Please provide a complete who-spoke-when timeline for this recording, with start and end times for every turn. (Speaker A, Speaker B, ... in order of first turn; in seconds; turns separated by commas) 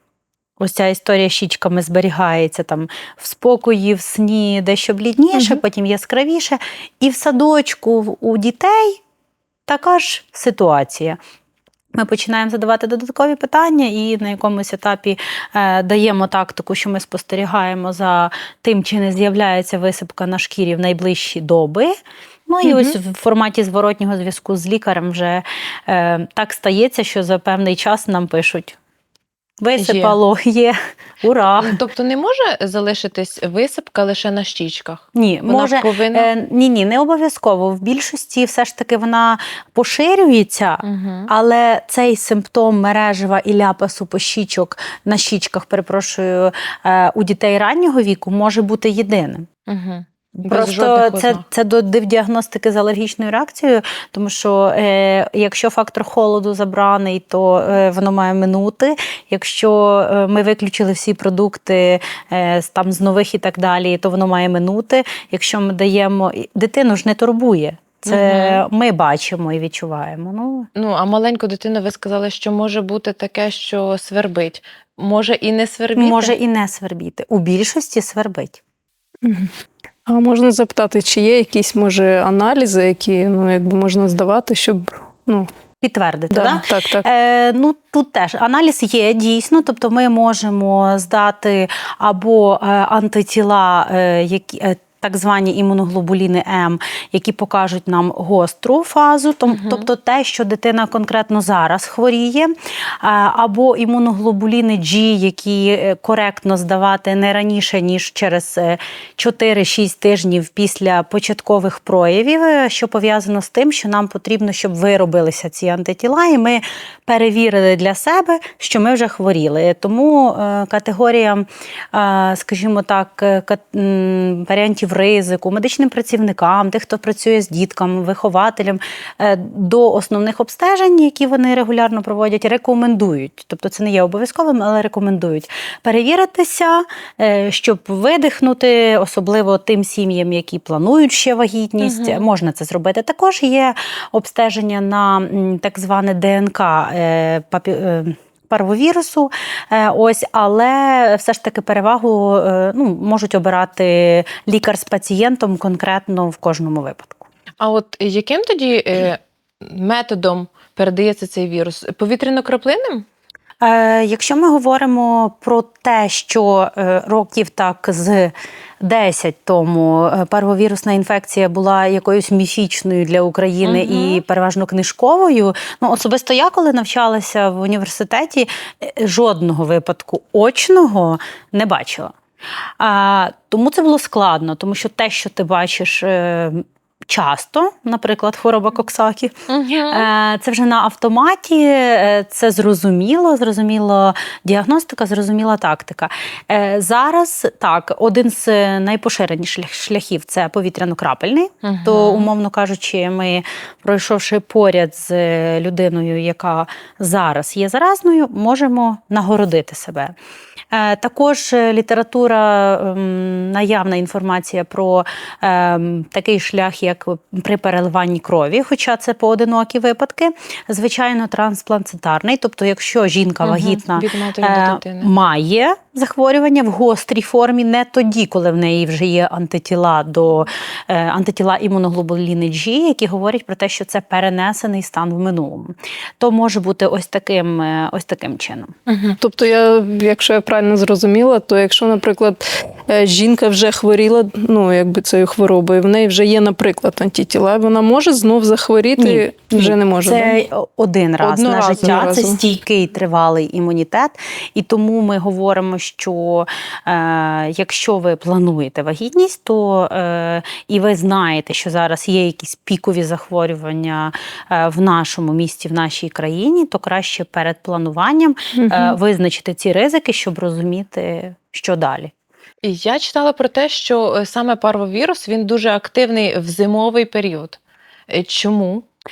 Speaker A: 0.6-9.0, Speaker A: 9.7-11.2, Speaker A: 11.9-21.9, Speaker A: 22.5-28.8, Speaker B: 22.6-22.9, Speaker A: 29.6-31.8, Speaker B: 29.8-30.2, Speaker B: 31.6-36.3, Speaker A: 35.1-49.5, Speaker B: 40.8-41.3, Speaker B: 49.7-51.4, Speaker A: 50.4-70.7, Speaker B: 68.1-68.6, Speaker B: 70.7-76.3, Speaker A: 76.0-78.6, Speaker C: 79.2-79.5, Speaker C: 80.1-85.5, Speaker A: 85.8-157.2, Speaker C: 86.3-87.1, Speaker B: 99.5-99.9, Speaker B: 141.8-142.3, Speaker B: 157.6-163.1, Speaker A: 163.6-182.2, Speaker B: 173.6-174.2, Speaker A: 182.8-210.2, Speaker B: 189.5-190.1, Speaker B: 201.6-202.3, Speaker A: 210.7-238.7, Speaker B: 223.4-225.1, Speaker B: 238.9-239.2, Speaker C: 239.2-250.4, Speaker A: 249.0-272.1, Speaker C: 251.2-252.4, Speaker C: 268.6-269.0, Speaker B: 272.6-277.6, Speaker B: 278.1-278.9